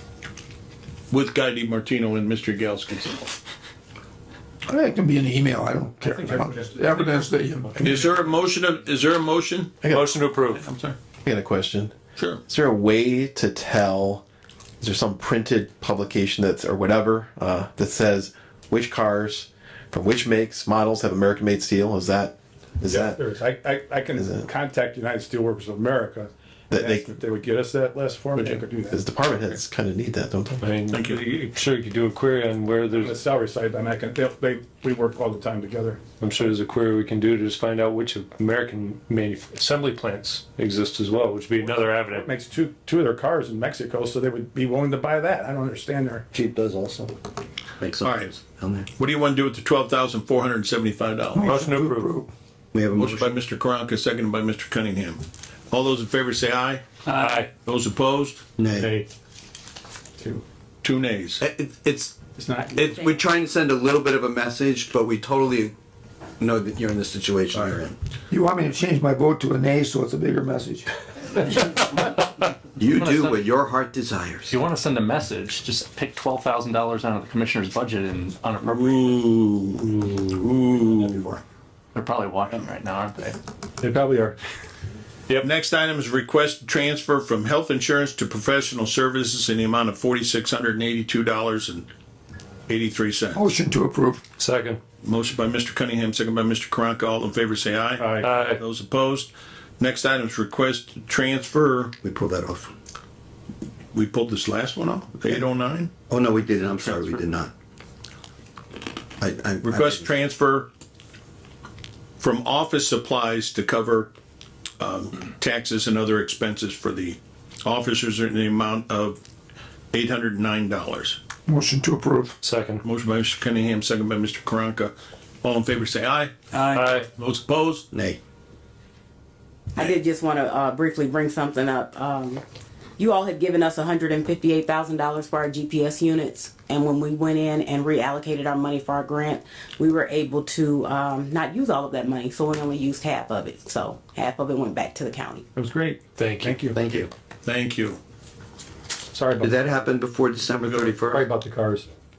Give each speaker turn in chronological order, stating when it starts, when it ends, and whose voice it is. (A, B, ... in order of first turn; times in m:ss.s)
0:01.1-0:03.4 A
0:04.7-0:07.8 B
0:06.0-0:08.4 C
0:07.8-0:09.8 A
0:09.9-0:10.7 D
0:10.4-0:11.0 A
0:11.2-0:12.0 E
0:12.2-0:12.4 A
0:12.5-0:14.2 E
0:14.8-0:23.2 E
0:22.8-0:29.0 C
0:26.7-0:27.0 E
0:28.4-0:28.6 A
0:28.9-0:30.7 E
0:30.6-0:33.1 D
0:30.9-0:31.2 A
0:32.9-0:36.0 C
0:36.2-0:42.3 D
0:41.6-0:46.2 C
0:46.3-0:47.1 F
0:47.8-0:48.9 F
0:48.0-0:48.4 A
0:49.0-0:51.5 A
0:51.4-0:52.3 B
0:51.4-0:52.2 D
0:52.7-0:53.3 F
0:52.9-0:55.2 A
0:55.7-0:57.0 A
0:57.1-0:57.5 D
0:57.5-0:58.4 A
0:58.6-0:58.9 F
1:00.8-1:01.4 A
1:01.4-1:02.2 F
1:02.4-1:02.9 C
1:02.8-1:05.7 F
1:06.4-1:08.0 F
1:08.3-1:10.9 B
1:12.8-1:14.6 F
1:12.8-1:13.5 G
1:14.5-1:19.3 G
1:18.6-1:21.4 A
1:20.0-1:20.2 D
1:21.9-1:23.4 G
1:23.8-1:24.4 C
1:25.4-1:31.9 A
1:32.7-1:33.5 A
1:33.3-1:34.2 B
1:34.4-1:34.8 D
1:35.0-1:41.9 A
1:38.2-1:38.6 D
1:42.0-1:42.7 F
1:43.9-1:45.9 A
1:46.1-1:47.5 F
1:49.2-1:50.2 F
1:49.6-1:50.7 A
1:52.2-1:54.1 A
1:54.8-1:59.2 A
1:59.9-2:01.2 A
2:01.5-2:02.4 B
2:02.4-2:02.8 D
2:02.8-2:06.4 A
2:06.7-2:07.1 D
2:07.1-2:07.8 A
2:07.9-2:08.2 F
2:09.8-2:12.4 H
2:13.0-2:25.5 H
2:25.6-2:26.8 C
2:26.2-2:26.6 D
2:26.7-2:27.1 F
2:27.4-2:28.0 A
2:29.1-2:29.7 C
2:29.4-2:31.3 F
2:30.5-2:31.0 A
2:31.1-2:31.9 C